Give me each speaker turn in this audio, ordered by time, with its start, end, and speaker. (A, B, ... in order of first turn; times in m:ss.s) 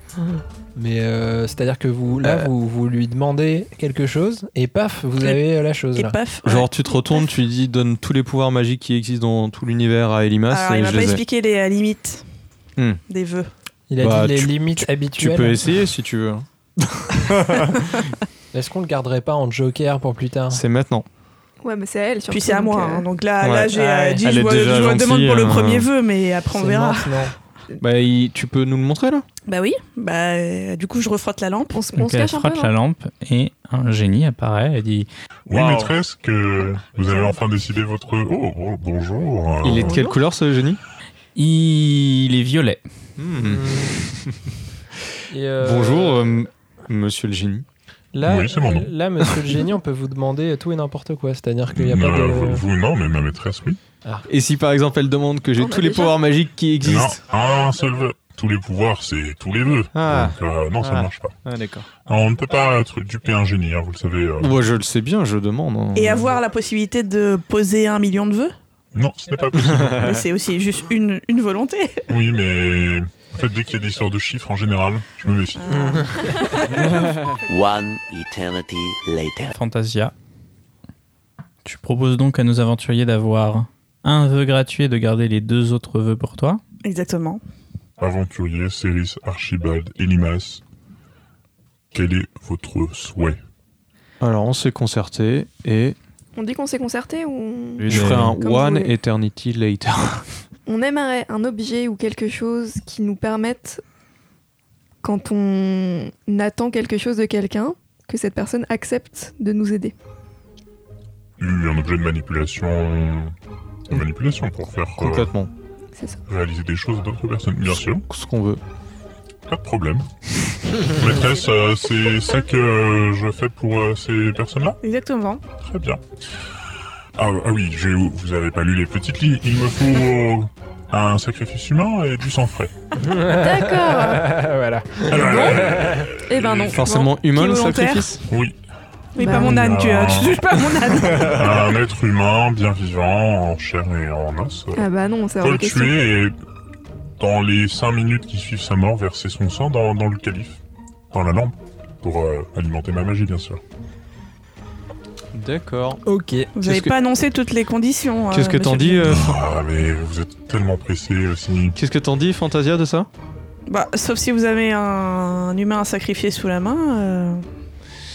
0:00.2-0:06.2 A
0:02.2-0:02.5 B
0:05.2-0:06.7 C
0:06.4-0:11.2 B
0:10.5-0:12.2 C
0:13.1-0:13.5 C
0:13.9-0:15.6 A
0:14.0-0:18.0 B
0:18.5-0:20.6 A
0:20.5-0:21.0 B
0:21.6-0:23.1 D
0:22.3-0:27.3 C
0:23.4-0:25.9 B
0:26.5-0:27.3 A
0:27.8-0:29.2 B
0:29.5-0:31.8 C
0:31.7-0:32.7 D
0:32.0-0:35.1 E
0:35.5-0:40.0 F
0:35.5-0:35.9 B
0:39.6-0:40.8 B
0:41.4-0:42.8 E
0:43.2-0:45.0 B
0:43.4-0:44.0 A
0:45.3-0:46.5 A
0:45.6-0:47.6 B
0:48.1-0:52.6 A
0:48.2-0:48.9 F
0:51.7-0:53.8 F
0:54.3-0:57.2 B
0:55.6-0:56.2 D
0:56.8-1:01.4 F
0:59.9-1:01.9 B
1:02.0-1:04.6 F
1:04.4-1:06.3 B
1:05.9-1:08.5 C
1:08.9-1:10.1 F
1:09.6-1:10.2 B
1:10.0-1:12.0 C
1:12.1-1:15.8 F
1:15.6-1:17.3 C
1:17.5-1:19.5 G
1:19.5-1:20.1 E
1:21.6-1:26.6 E
1:26.8-1:27.4 C
1:28.0-1:30.6 F
1:31.9-1:33.4 F
1:34.2-1:36.0 B
1:36.4-1:38.9 D
1:37.8-1:40.3 B
1:37.9-1:38.3 E
1:40.7-1:43.8 D
1:45.0-1:49.9 D
1:51.4-1:53.3 F
1:53.9-1:55.3 F
1:55.0-1:55.5 B
1:56.3-1:58.0 F
1:57.8-1:58.6 B
1:59.4-2:00.1 F
2:00.7-2:04.8 F
2:04.8-2:05.4 C
2:05.6-2:06.0 F
2:07.2-2:12.7 F
2:13.0-2:16.1 A
2:13.3-2:14.3 D
2:15.1-2:16.8 F
2:15.2-2:15.7 D
2:16.3-2:17.2 D
2:16.7-2:18.2 B
2:17.4-2:18.0 C
2:18.3-2:18.6 F
2:19.1-2:21.6 C
2:19.2-2:19.5 D
2:19.2-2:20.6 F
2:21.2-2:24.9 F
2:24.7-2:26.0 D
2:25.4-2:26.3 F
2:27.2-2:33.6 F
2:35.3-2:36.0 B
2:36.0-2:36.5 A
2:36.6-2:39.1 C
2:36.6-2:36.9 B
2:38.3-2:39.4 B
2:39.1-2:41.8 F
2:41.8-2:43.1 B
2:43.7-2:47.5 C